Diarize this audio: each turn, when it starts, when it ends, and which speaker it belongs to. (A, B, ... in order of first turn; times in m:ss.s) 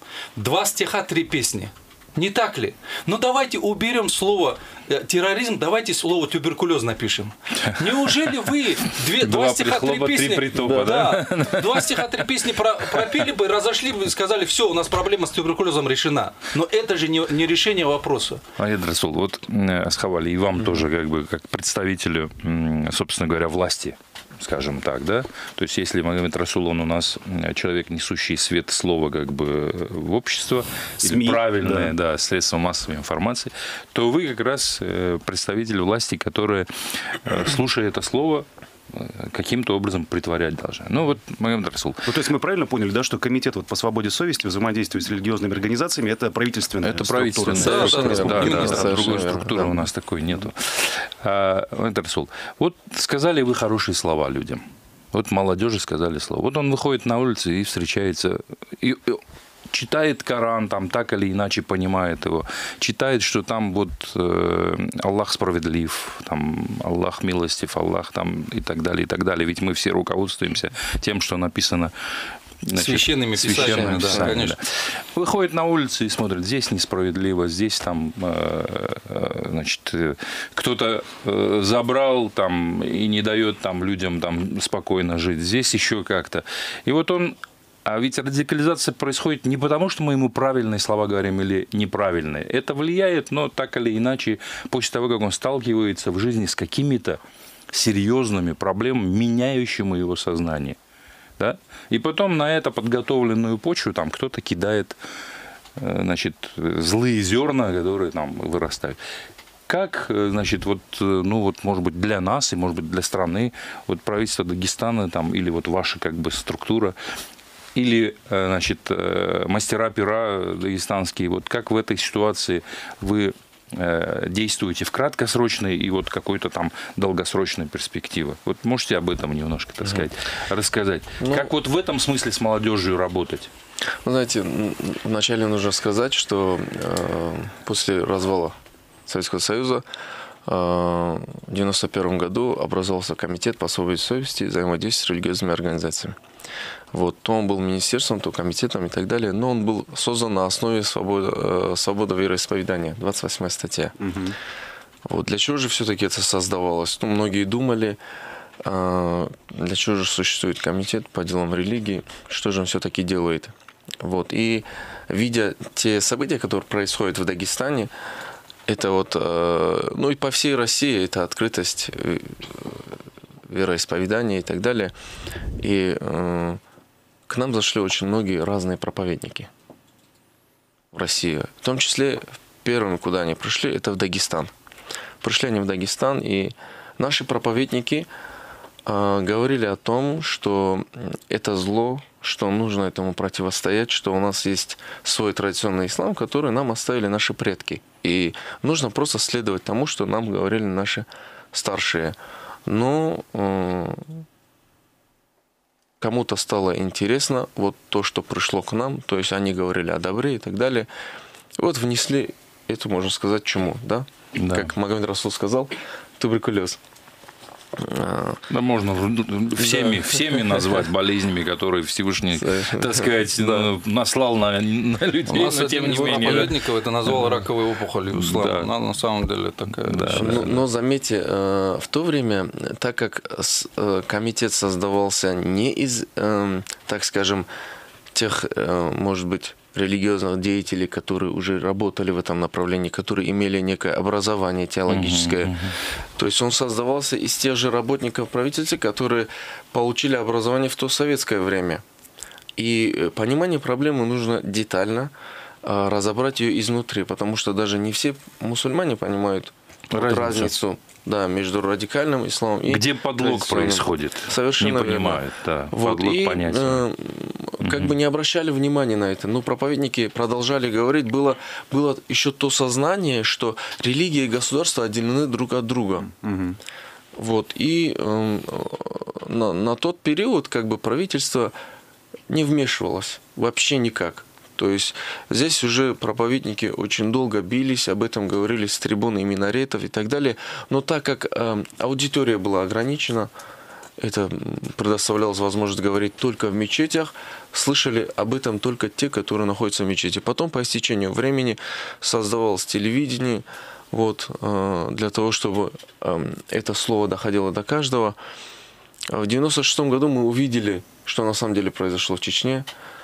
0:00.4-0:18.4 A
0:09.0-0:12.3 B
0:10.5-0:10.9 C
0:18.6-0:42.1 B
0:31.0-0:31.9 D
0:42.0-0:48.9 D
0:46.8-1:11.9 B
0:47.5-0:49.9 C
0:47.6-0:49.1 A
1:12.6-1:37.2 B
1:12.7-1:14.6 A
1:13.4-1:14.4 C
1:37.7-1:40.8 B
1:41.4-1:45.0 B
1:45.8-1:49.0 B
1:49.7-1:57.0 B
1:57.7-2:13.5 B
2:11.2-2:11.5 C
2:14.0-2:19.8 C
2:20.4-2:26.2 C
2:26.9-2:33.9 C
2:34.0-2:34.4 D
2:35.0-2:38.0 C
2:38.6-2:47.9 C
2:48.7-2:52.9 C
2:53.5-2:54.9 C
2:55.6-2:56.6 C
2:57.3-2:59.5 C
3:00.9-3:04.5 C
3:05.2-3:08.1 C
3:08.8-3:24.2 C
3:26.0-3:30.9 C
3:31.6-3:36.8 C
3:34.4-3:34.7 B
3:37.8-3:38.4 C
3:38.5-3:47.4 B
3:39.6-3:40.8 C
3:42.3-3:43.7 C
3:45.3-3:50.4 A
3:46.0-3:46.5 C
3:48.1-3:48.7 B
3:49.8-3:50.6 B
3:50.1-3:57.5 C
3:58.1-4:05.6 C
4:04.9-4:05.8 B
4:06.2-4:11.8 C
4:12.6-4:36.1 C
4:19.9-4:20.5 B
4:22.7-4:26.8 B
4:27.6-4:27.9 B
4:36.1-4:36.6 D
4:37.2-4:41.5 C
4:42.3-4:53.3 C
4:54.0-5:08.2 C
5:09.1-5:12.7 C